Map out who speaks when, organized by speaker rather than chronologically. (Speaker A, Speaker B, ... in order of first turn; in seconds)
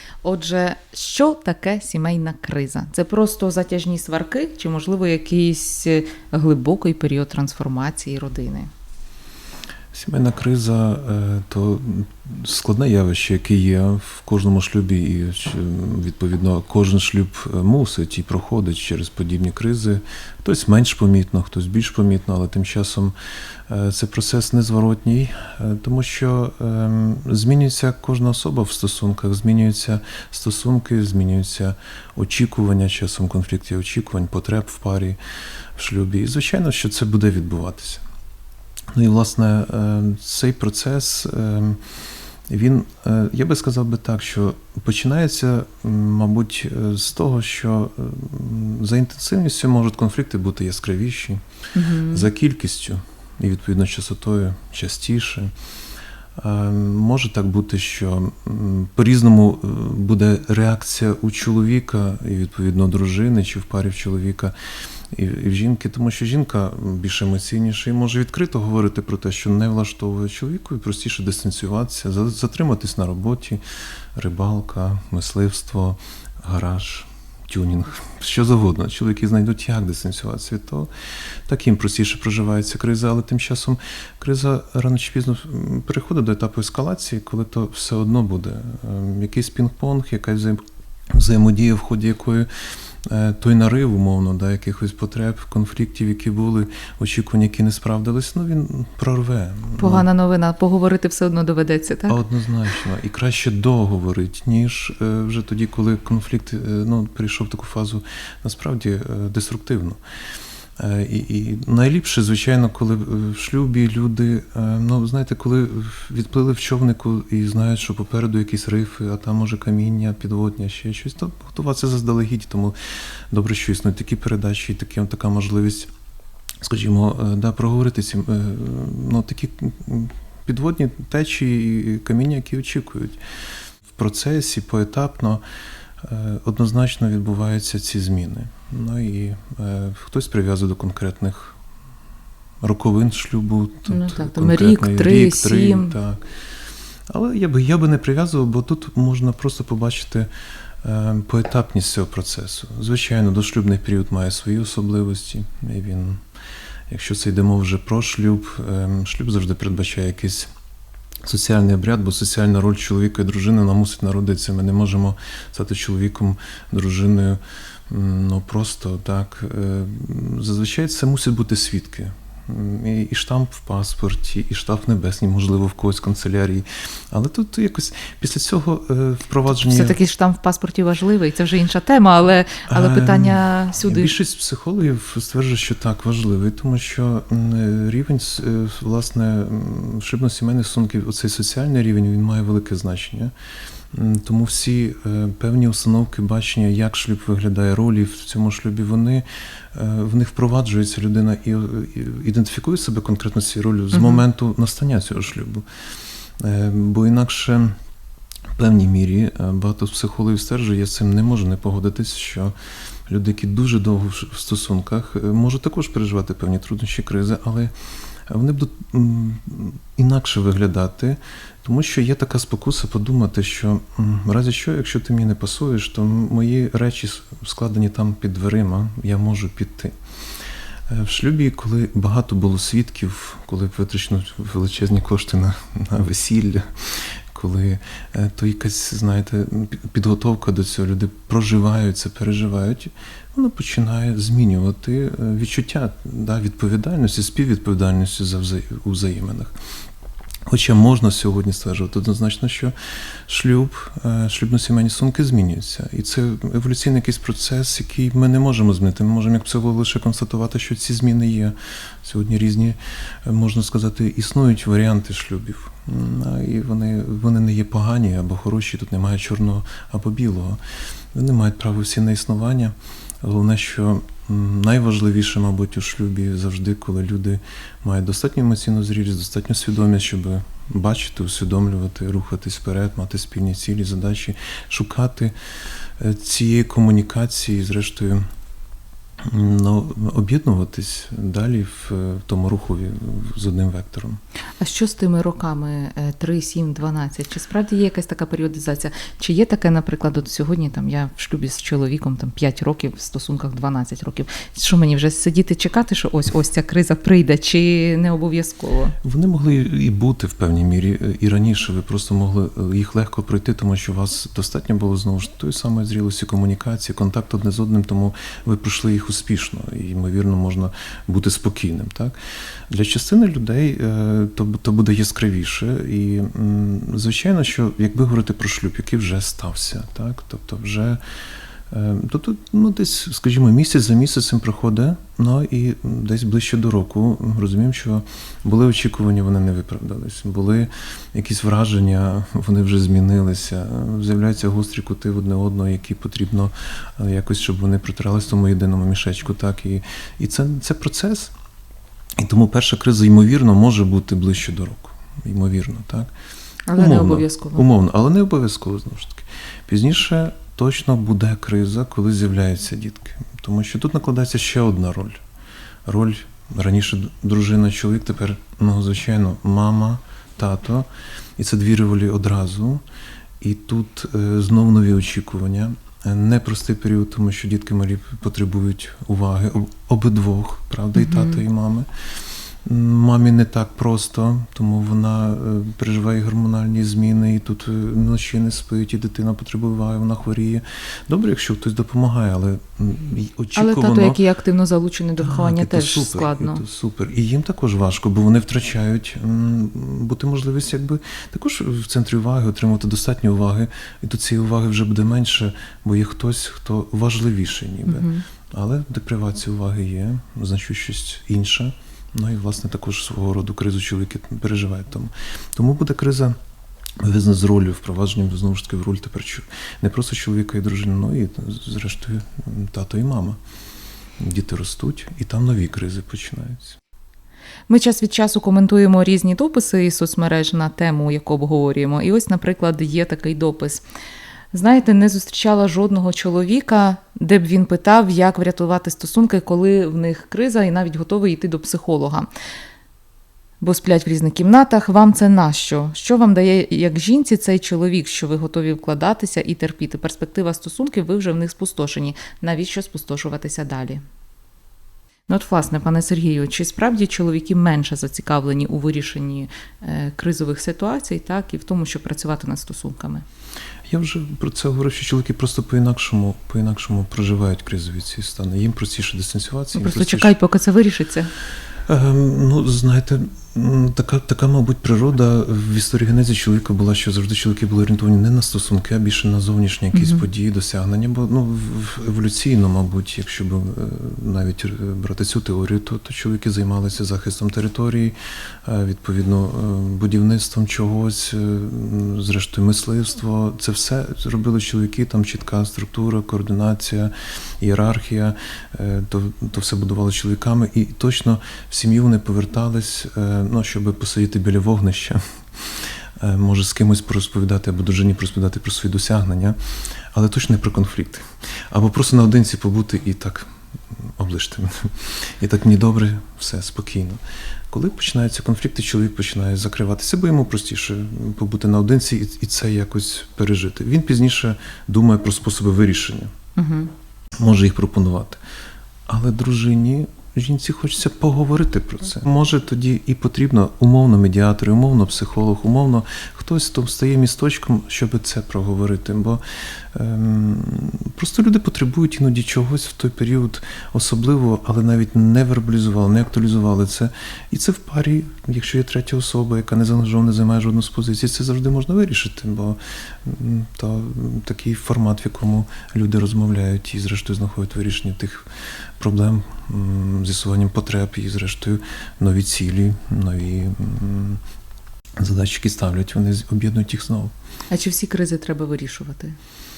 Speaker A: 0.2-8.7, 51.7-52.3, 99.8-102.2, 143.9-145.9, 179.5-184.1, 203.9-204.2, 294.6-308.9, 356.7-357.6, 380.9-381.4, 393.6-396.6, 407.9-408.2, 427.7-433.8, 434.5-442.3, 443.6-454.0, 455.3-463.2, 469.7-471.3, 479.9-480.2, 526.6-526.9, 567.7-569.4
Speaker B: 9.9-23.1, 23.7-35.2, 35.7-38.0, 38.9-41.9, 42.5-51.4, 52.1-55.5, 56.4-64.5, 65.1-73.6, 74.1-80.9, 81.5-92.5, 93.0-100.1, 102.1-110.0, 110.8-122.7, 123.3-125.9, 126.6-133.2, 133.9-135.4, 136.0-141.6, 142.6-146.2, 147.1-150.3, 150.8-156.2, 156.9-160.5, 161.2-180.0, 182.7-193.3, 193.9-205.6, 206.4-207.7, 208.6-212.5, 213.1-217.7, 218.3-230.0, 230.9-249.5, 250.4-252.7, 253.3-270.6, 271.1-285.3, 285.9-288.2, 289.2-294.2, 309.0-322.1, 322.7-331.0, 331.7-351.3, 352.2-356.1, 356.7-365.2, 365.9-372.8, 373.4-381.9, 382.6-394.2, 395.2-416.4, 417.0-423.4, 424.2-426.8, 463.9-470.3, 471.9-509.6, 510.1-526.3, 527.4-528.4, 529.1-564.4, 565.2-567.3